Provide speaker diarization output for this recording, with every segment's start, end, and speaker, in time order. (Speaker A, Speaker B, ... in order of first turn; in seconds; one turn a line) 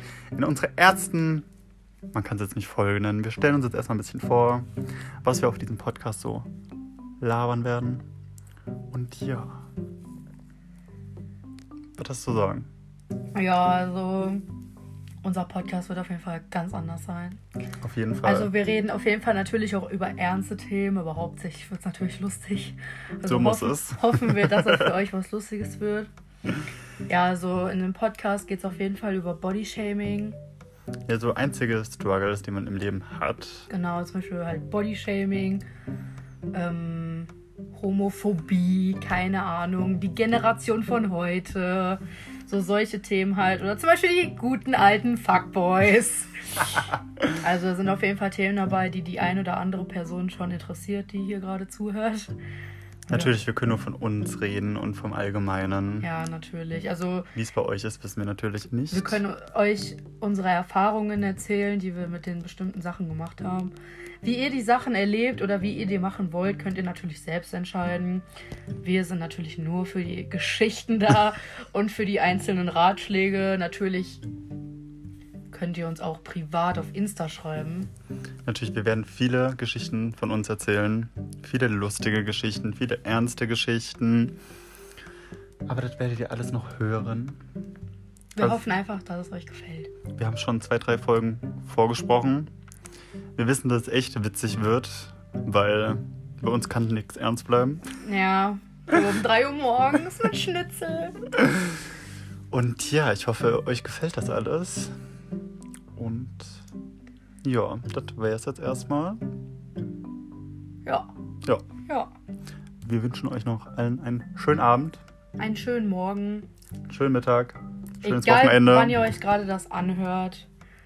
Speaker A: 0.3-1.5
Speaker A: 2.1-4.7
Speaker A: 5.2-6.5
Speaker A: 7.2-8.0
Speaker A: 8.9-9.6
Speaker A: 12.0-12.7
Speaker B: 13.3-14.4
Speaker B: 15.2-17.4
Speaker A: 17.8-18.5
Speaker B: 18.2-26.1
Speaker A: 23.3-24.9
Speaker B: 27.1-30.4
Speaker A: 31.1-33.7
Speaker B: 33.7-35.6
Speaker B: 36.5-46.7
Speaker B: 47.3-52.3
Speaker B: 53.1-53.3
Speaker A: 53.1-56.1
Speaker B: 56.0-57.3
Speaker A: 57.4-59.2
Speaker B: 58.9-68.2
Speaker B: 68.8-74.2
Speaker B: 75.5-77.9
Speaker A: 78.5-84.4
Speaker A: 85.7-87.4
Speaker B: 88.4-89.9
Speaker A: 88.4-88.7
Speaker A: 90.2-92.5
Speaker A: 93.4-97.9
Speaker B: 98.0-101.2
Speaker A: 102.5-104.9
Speaker A: 106.0-106.6
Speaker A: 107.4-109.2
Speaker B: 110.8-111.1
Speaker A: 112.8-115.0
Speaker B: 115.4-116.5
Speaker A: 116.9-119.0
Speaker B: 118.0-120.5